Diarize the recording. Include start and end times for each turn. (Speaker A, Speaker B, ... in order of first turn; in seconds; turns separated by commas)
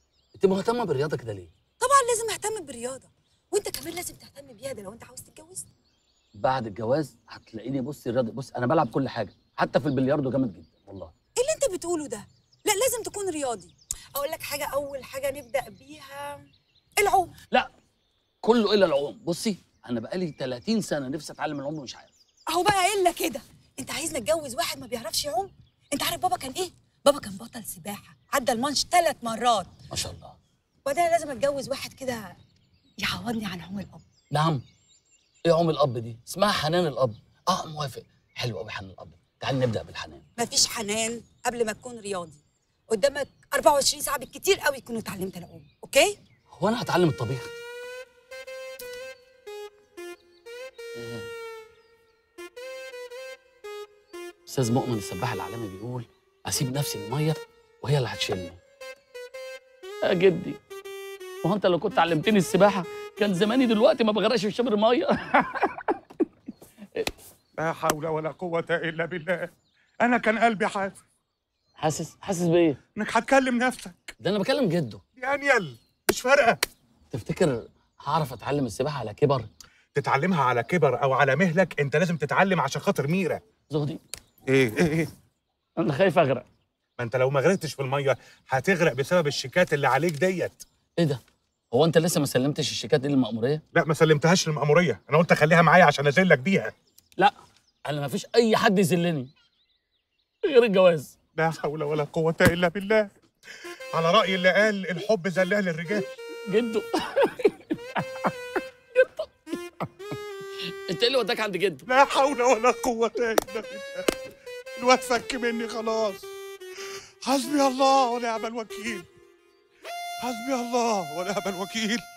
Speaker A: 0.4-1.5, Speaker B: 1.8-5.7, Speaker A: 6.4-11.1, Speaker B: 11.4-17.3, Speaker A: 18.4-22.1, Speaker B: 22.5-29.7, Speaker A: 29.9-30.4, Speaker B: 30.9-32.4, Speaker B: 33.0-34.0, Speaker A: 34.3-34.6, Speaker A: 35.5-40.2, Speaker B: 40.4-46.1, Speaker A: 46.5-47.5, Speaker A: 51.0-51.3, Speaker A: 54.5-58.6, Speaker A: 60.1-60.6, Speaker A: 61.4-65.9, Speaker C: 67.6-69.5, Speaker C: 70.0-71.0, Speaker A: 71.8-72.8, Speaker C: 73.0-74.1, Speaker A: 74.2-75.0, Speaker C: 75.2-76.6, Speaker A: 77.1-79.5, Speaker C: 80.0-83.4, Speaker A: 83.7-84.0, Speaker C: 84.5-85.1, Speaker A: 85.8-86.5, Speaker C: 87.0-90.6, Speaker A: 91.7-93.6, Speaker C: 93.7-96.7, Speaker A: 97.9-99.3, Speaker A: 100.5-101.1, Speaker C: 101.3-103.1, Speaker C: 103.9-106.1, Speaker A: 106.5-108.3, Speaker A: 109.0-109.9, Speaker A: 110.9-111.9, Speaker C: 111.9-114.1, Speaker C: 114.8-116.2, Speaker C: 117.2-119.1, Speaker C: 120.2-122.0